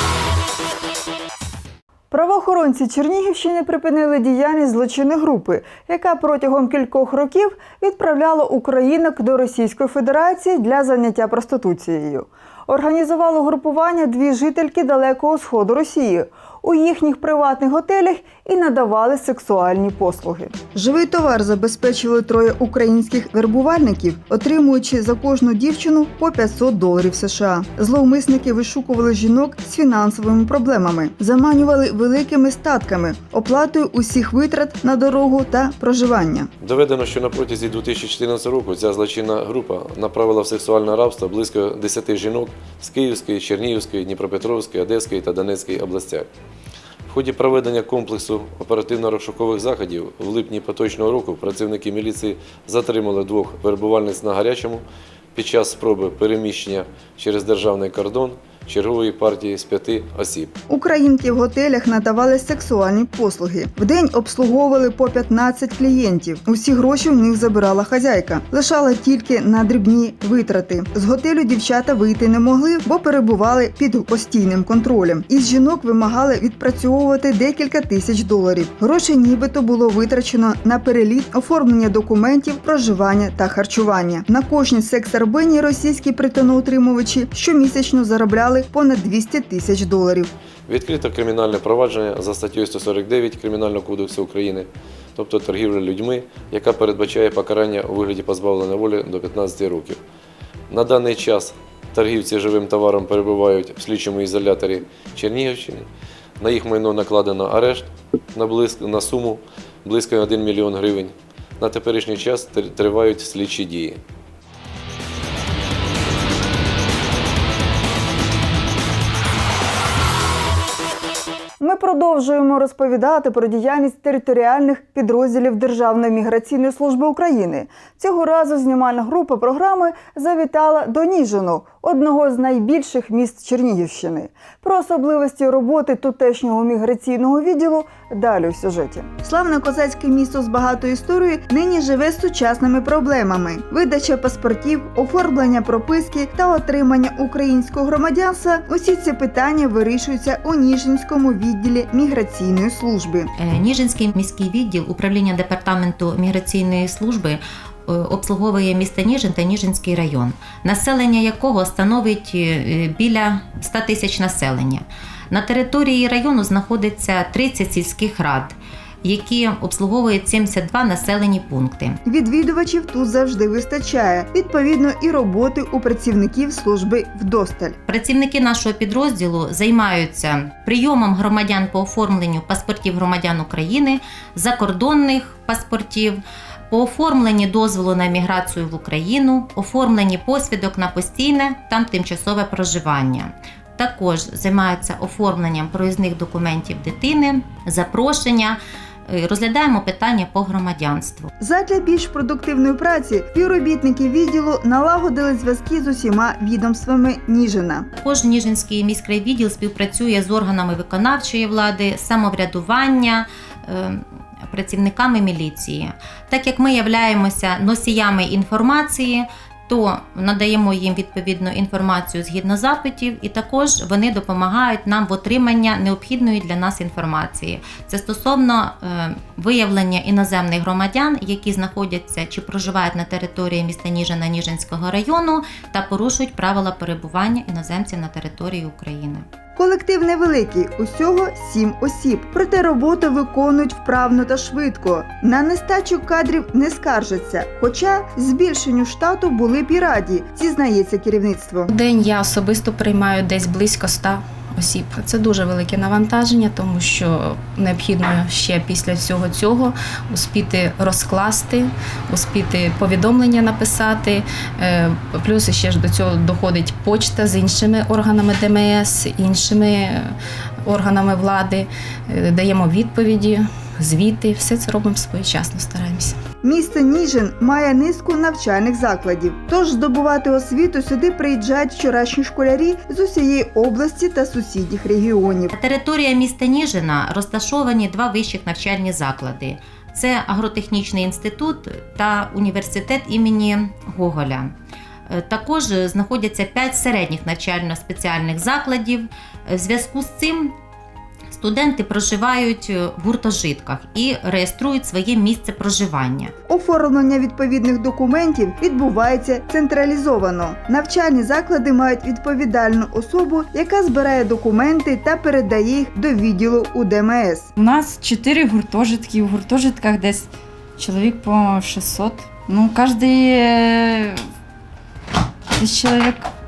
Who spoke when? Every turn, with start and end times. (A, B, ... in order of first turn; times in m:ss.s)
0:02.1-0:36.5 A
0:36.6-0:46.3 B
0:47.1-0:54.8 B
0:55.3-1:00.5 B
1:00.7-1:30.3 A
1:30.7-1:40.0 B
1:40.7-1:45.9 B
1:46.4-1:54.0 B
2:01.6-2:33.3 A
2:33.4-2:52.0 C
2:52.0-2:57.8 A
2:57.8-3:21.3 C
3:21.4-3:27.9 A
3:28.0-3:59.2 C
3:59.6-4:11.7 A
4:11.7-4:36.2 D
4:36.4-4:45.5 A
4:45.5-4:54.5 C
4:55.1-5:00.5 C
5:01.3-5:06.3 C
5:06.5-5:17.5 A
5:17.6-5:24.3 E
5:25.6-5:26.3 E